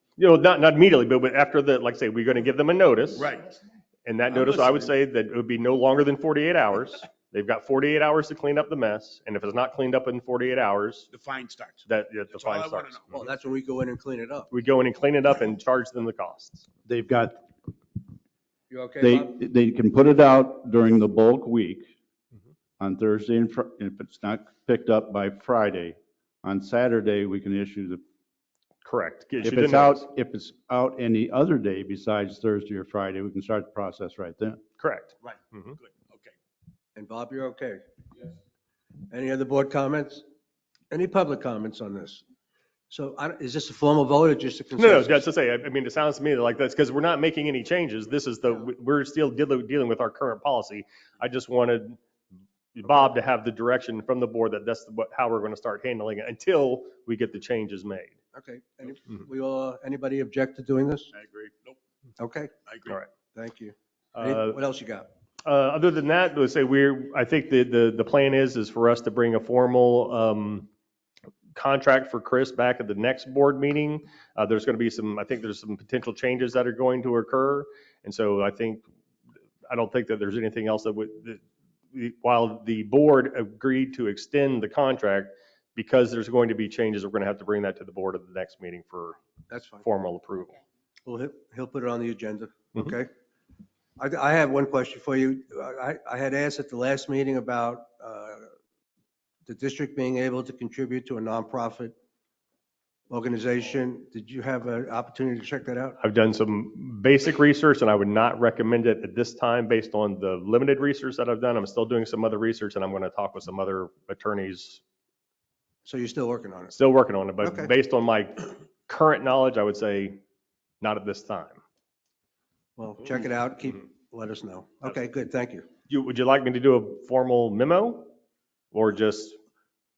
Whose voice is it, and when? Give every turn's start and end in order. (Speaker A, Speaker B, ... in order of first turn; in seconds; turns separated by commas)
Speaker A: 0.2-3.3, Speaker B: 3.2-3.6, Speaker A: 4.0-11.1, Speaker B: 4.3-4.9, Speaker B: 11.1-13.2, Speaker A: 11.9-13.0, Speaker C: 13.1-14.5, Speaker A: 14.5-16.6, Speaker D: 16.8-17.5, Speaker C: 18.7-19.3, Speaker D: 19.0-21.9, Speaker D: 22.8-28.0, Speaker A: 28.8-30.1, Speaker D: 29.4-34.6, Speaker A: 34.8-35.8, Speaker B: 35.2-36.3, Speaker C: 37.0-37.8, Speaker C: 39.1-40.2, Speaker C: 40.9-42.2, Speaker C: 42.9-45.3, Speaker A: 44.8-52.0, Speaker A: 52.7-58.2, Speaker C: 58.3-61.1, Speaker D: 61.1-61.5, Speaker C: 62.2-62.5, Speaker B: 62.7-63.0, Speaker C: 63.3-65.1, Speaker A: 64.2-64.6, Speaker A: 65.4-70.7, Speaker A: 71.6-78.8, Speaker A: 79.7-81.4, Speaker A: 81.9-89.2, Speaker C: 89.5-89.9, Speaker A: 89.8-90.6, Speaker C: 91.0-93.1, Speaker C: 94.0-98.5, Speaker C: 99.5-101.9, Speaker C: 103.1-106.0, Speaker A: 106.0-114.8, Speaker C: 115.8-116.8, Speaker A: 116.7-120.2, Speaker C: 117.4-117.7, Speaker A: 120.8-121.6, Speaker C: 122.8-125.7, Speaker A: 125.9-128.1, Speaker A: 128.7-129.4